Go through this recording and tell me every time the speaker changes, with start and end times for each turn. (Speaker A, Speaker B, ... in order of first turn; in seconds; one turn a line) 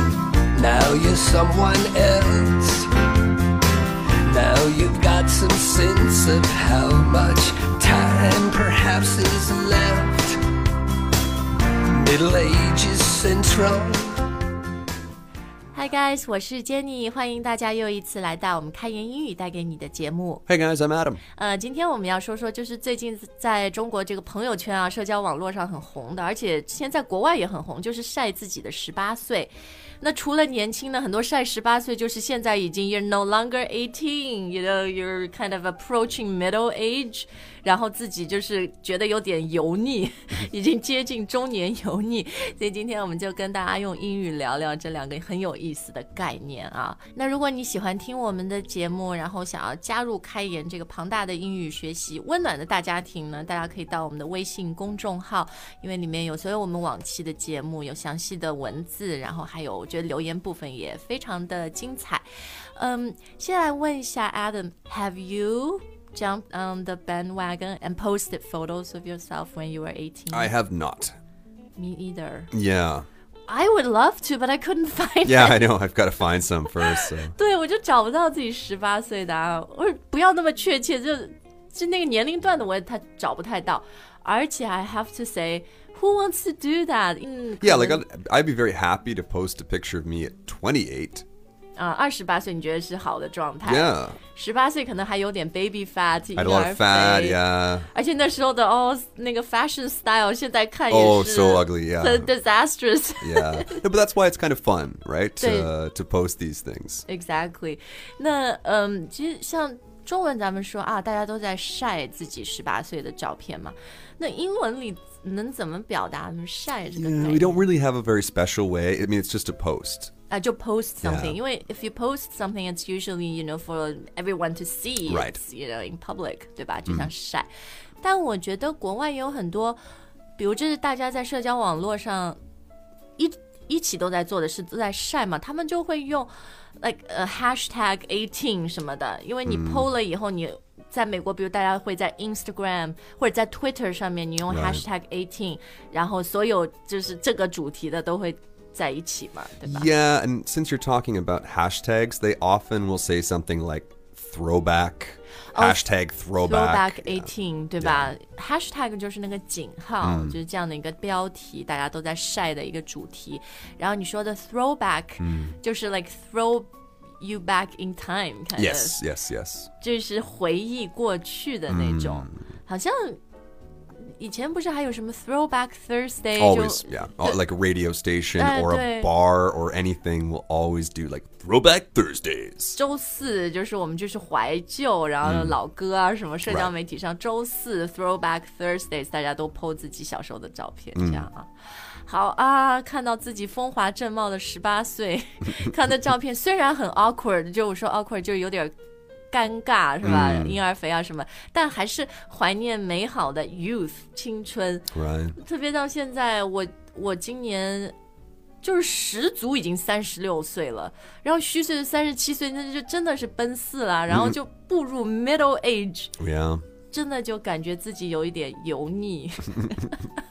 Speaker A: 0.5-2.9
Speaker A: 4.2-10.4
Speaker A: 11.9-14.2
Speaker B: 15.7-20.4
Speaker C: 20.5-21.2
Speaker B: 21.4-62.2
Speaker B: 62.8-70.5
Speaker C: 70.3-71.2
Speaker B: 71.8-72.5
Speaker C: 72.5-73.1
Speaker B: 73.5-75.6
Speaker C: 75.2-77.3
Speaker B: 76.7-88.0
Speaker C: 87.6-91.2
Speaker B: 91.8-103.8
Speaker C: 93.6-94.2
Speaker C: 96.3-97.9
Speaker C: 100.9-102.3
Speaker C: 103.2-107.0
Speaker B: 105.4-105.7
Speaker B: 107.1-117.7
Speaker C: 116.9-120.1
Speaker B: 120.3-127.5
Speaker C: 121.0-121.4
Speaker C: 125.0-125.4
Speaker B: 128.0-129.8
Speaker B: 130.4-132.4
Speaker B: 133.2-149.9
Speaker C: 139.4-139.9
Speaker C: 144.5-144.8
Speaker C: 149.6-158.1
Speaker B: 155.5-166.7
Speaker C: 160.0-160.4
Speaker C: 165.2-165.6
Speaker B: 167.2-169.0
Speaker C: 168.5-169.7
Speaker B: 169.8-173.2
Speaker C: 171.7-172.4
Speaker B: 174.0-177.4
Speaker C: 176.3-182.8
Speaker B: 178.4-179.1
Speaker B: 182.8-191.5
Speaker C: 185.2-185.6
Speaker C: 190.9-191.3
Speaker B: 192.0-198.7
Speaker B: 199.3-207.9
Speaker C: 200.0-200.6
Speaker C: 204.9-205.4
Speaker B: 208.6-216.2
Speaker C: 214.1-214.4
Speaker C: 216.2-216.6
Speaker B: 216.9-220.1